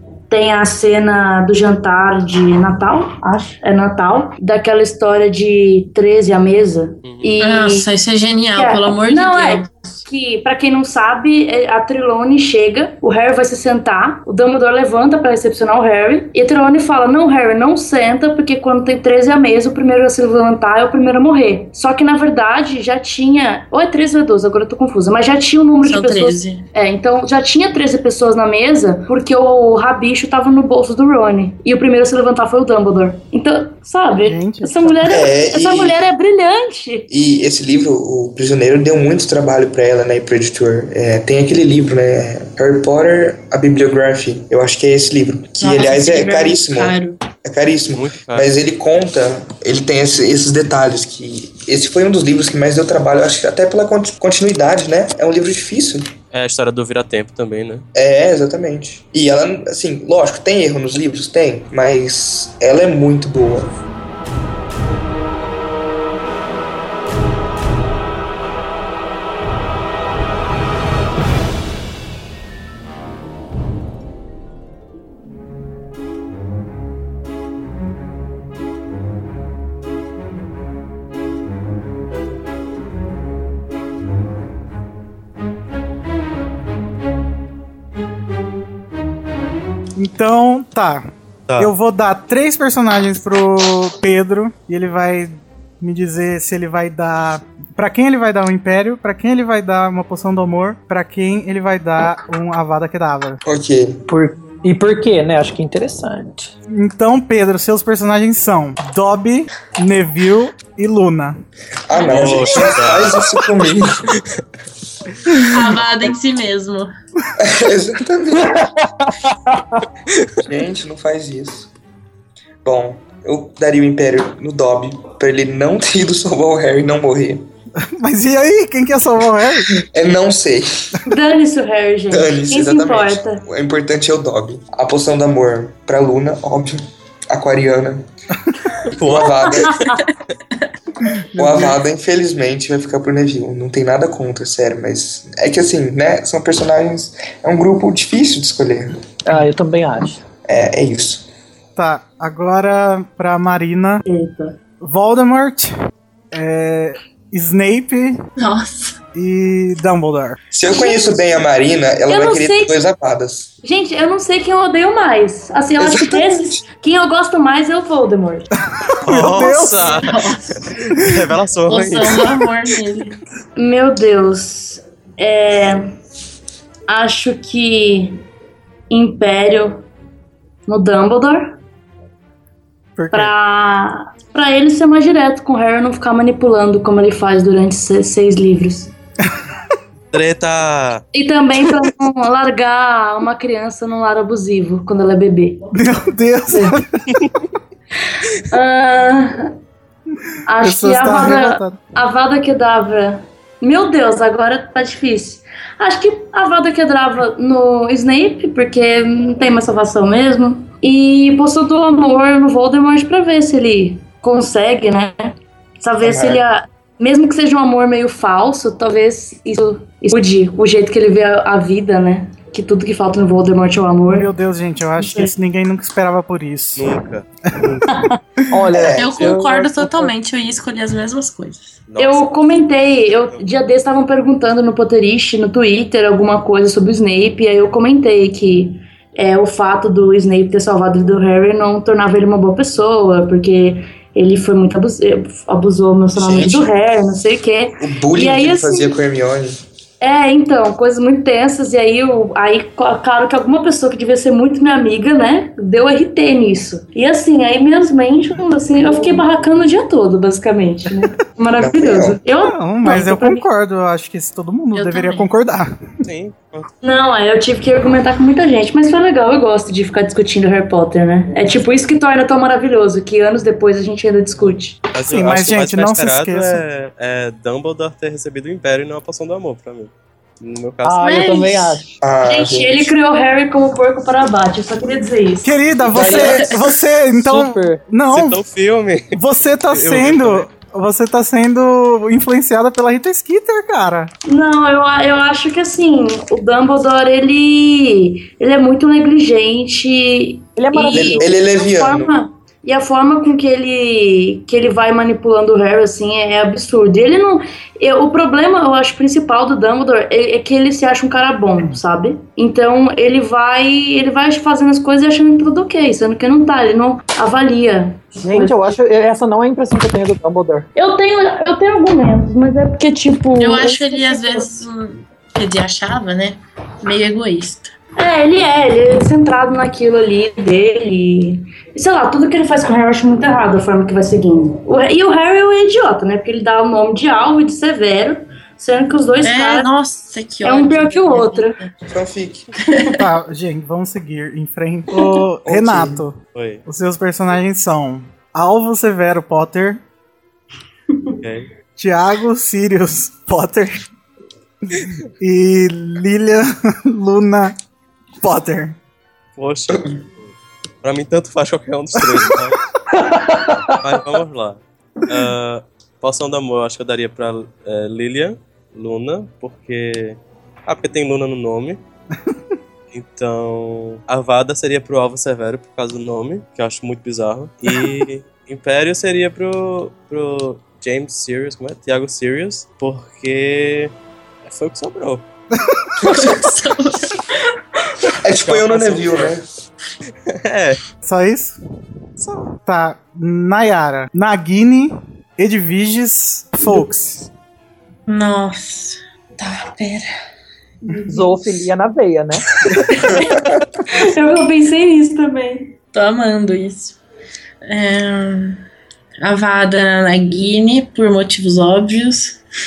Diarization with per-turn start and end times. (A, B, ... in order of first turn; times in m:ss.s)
0:00.3-0:07.8 A
0:07.0-0:07.4 B
0:07.4-0:10.0 C
0:08.6-0:37.1 A
0:25.8-0:26.6 C
0:34.2-0:35.0 D
0:35.0-0:36.0 E
0:37.1-0:56.1 E
0:45.6-0:47.2 C
0:47.9-0:48.5 B
0:56.3-0:57.8 B
0:57.9-1:03.7 E
1:30.0-1:31.0 D
1:31.6-1:43.4 D
1:43.4-1:44.0 E
1:44.1-1:46.5 F
1:46.7-1:51.4 D
1:51.9-1:54.1 E
1:51.9-1:52.9 C
1:52.1-1:53.3 B
1:55.5-1:56.9 C
1:57.4-1:58.6 E
1:59.5-1:59.8 F
2:00.4-2:01.7 E
2:02.6-2:07.5 E
2:08.0-2:09.8 D
2:09.9-2:11.0 E
2:11.1-2:13.4 A
2:12.1-2:18.0 E
2:18.9-2:19.9 B
2:19.0-2:19.8 E
2:20.0-2:20.7 C
2:21.3-2:21.8 D
2:21.4-2:29.0 E
2:29.3-2:30.2 F
2:30.4-2:31.3 E
2:31.8-2:34.0 D
2:34.0-2:34.6 A
2:34.8-2:35.7 D
2:36.3-2:38.2 D
2:38.4-2:39.0 C
2:39.1-2:40.4 D
2:40.5-2:43.5 E
2:40.6-2:41.2 A
2:42.1-2:42.8 A
2:43.6-2:48.4 A
2:45.8-2:46.6 E
2:48.8-2:50.0 D
2:49.0-2:52.3 B
2:50.0-2:50.6 C
2:51.7-2:53.2 C
2:53.6-2:55.8 A
2:56.9-2:58.2 A
2:58.9-2:59.8 A
3:00.7-3:01.6 A
3:03.0-3:03.3 D
3:03.1-3:08.9 A
3:10.1-3:11.0 B
3:11.1-3:15.7 A
3:15.7-3:17.1 D
3:16.5-3:16.8 A
3:18.5-3:19.5 A
3:20.5-3:44.3 A
3:20.6-3:21.8 D
3:36.0-3:36.4 E
3:44.1-3:47.0 D
3:45.0-3:45.3 A
3:46.8-3:47.8 B
3:48.5-3:50.1 F
3:48.7-3:49.3 E
3:48.9-3:51.7 C
3:51.9-3:52.6 B
3:52.0-4:09.0 A
4:06.2-4:06.7 E
4:07.8-4:09.6 E
4:10.0-4:23.4 A
4:21.6-4:22.2 E
4:22.4-4:25.7 D
4:24.7-4:25.3 C
4:26.0-4:26.7 B
4:26.8-4:34.8 A
4:34.9-4:40.9 B
4:35.1-4:36.6 D
4:40.8-4:41.9 F
4:41.0-4:41.8 C
4:42.0-4:42.9 E
4:42.3-4:45.6 A
4:45.4-4:48.4 D
4:45.9-4:46.6 F
4:47.1-4:47.8 F
4:48.1-4:49.2 B
4:49.1-4:54.1 D
4:49.7-4:50.5 B
4:54.3-5:18.6 A
5:00.6-5:01.3 F
5:00.9-5:02.1 E
5:18.2-5:20.7 F
5:20.7-5:24.4 A
5:23.4-5:27.7 C
5:28.0-5:39.7 A
5:39.2-5:41.7 C
5:40.4-5:41.6 A
5:41.9-5:42.5 E
5:42.7-5:42.9 C
5:43.0-5:49.8 D
5:45.4-5:46.0 E
5:46.3-5:46.6 B
5:51.2-5:51.5 B
5:51.8-5:53.8 D
5:54.7-5:57.6 D
5:58.2-5:58.8 D
5:59.4-6:02.6 B
6:02.9-6:03.8 F
6:03.6-6:11.8 B
6:12.9-6:23.9 B
6:24.4-6:25.2 B
6:26.0-6:26.5 E
6:26.0-6:27.4 C
6:28.2-6:29.4 E
6:28.4-6:29.4 B
6:30.3-6:30.8 B
6:31.0-6:31.6 D
6:32.2-6:37.3 D
6:38.1-6:40.1 C
6:41.0-6:42.7 F
6:43.1-6:43.6 E
6:43.9-6:45.7 A
6:45.9-6:47.0 C
6:47.6-6:48.6 C
6:49.2-6:52.4 C